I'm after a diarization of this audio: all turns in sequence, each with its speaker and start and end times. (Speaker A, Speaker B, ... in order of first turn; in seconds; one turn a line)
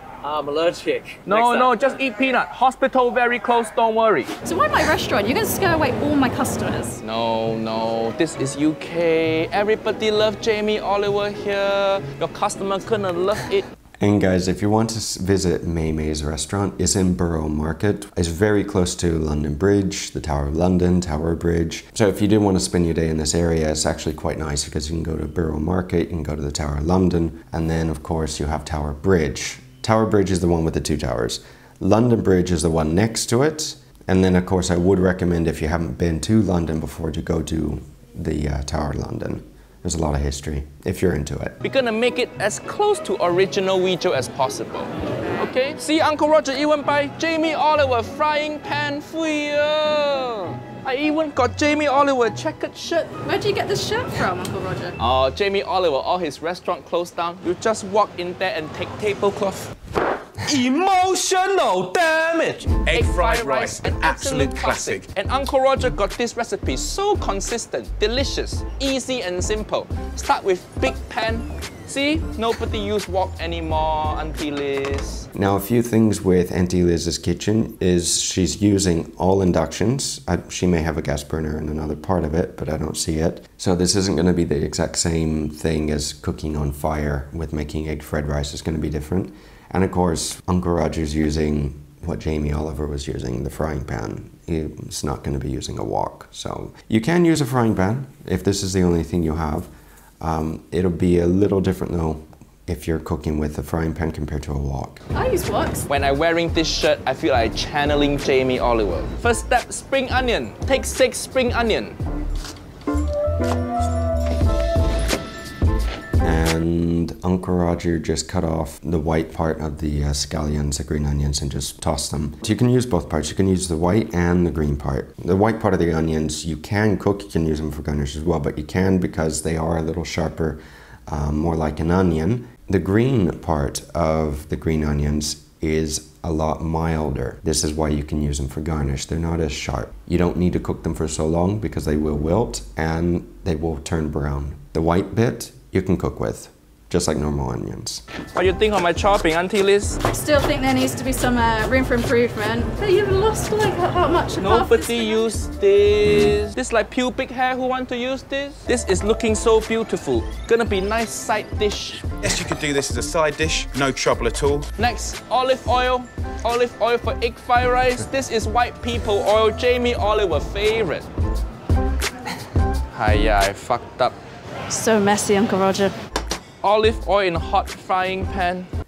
Speaker A: 0.2-1.7
Speaker B: 1.2-4.3
Speaker C: 4.5-7.0
Speaker B: 7.0-13.7
Speaker D: 14.0-41.6
Speaker B: 41.6-53.1
Speaker C: 53.2-55.0
Speaker B: 55.0-59.7
Speaker A: 60.6-62.6
Speaker E: 62.8-65.1
Speaker B: 62.9-75.3
Speaker D: 75.3-99.7
Speaker D: 100.2-105.0
Speaker C: 105.1-105.8
Speaker B: 105.9-112.0
Speaker D: 116.2-148.0
Speaker B: 148.3-150.0
Speaker C: 150.1-155.3
Speaker B: 154.4-162.1
Speaker D: 156.1-156.4
Speaker E: 162.2-164.7
Speaker B: 164.8-171.1
Speaker B: 172.9-174.2
Speaker C: 174.7-175.9
Speaker B: 176.6-178.7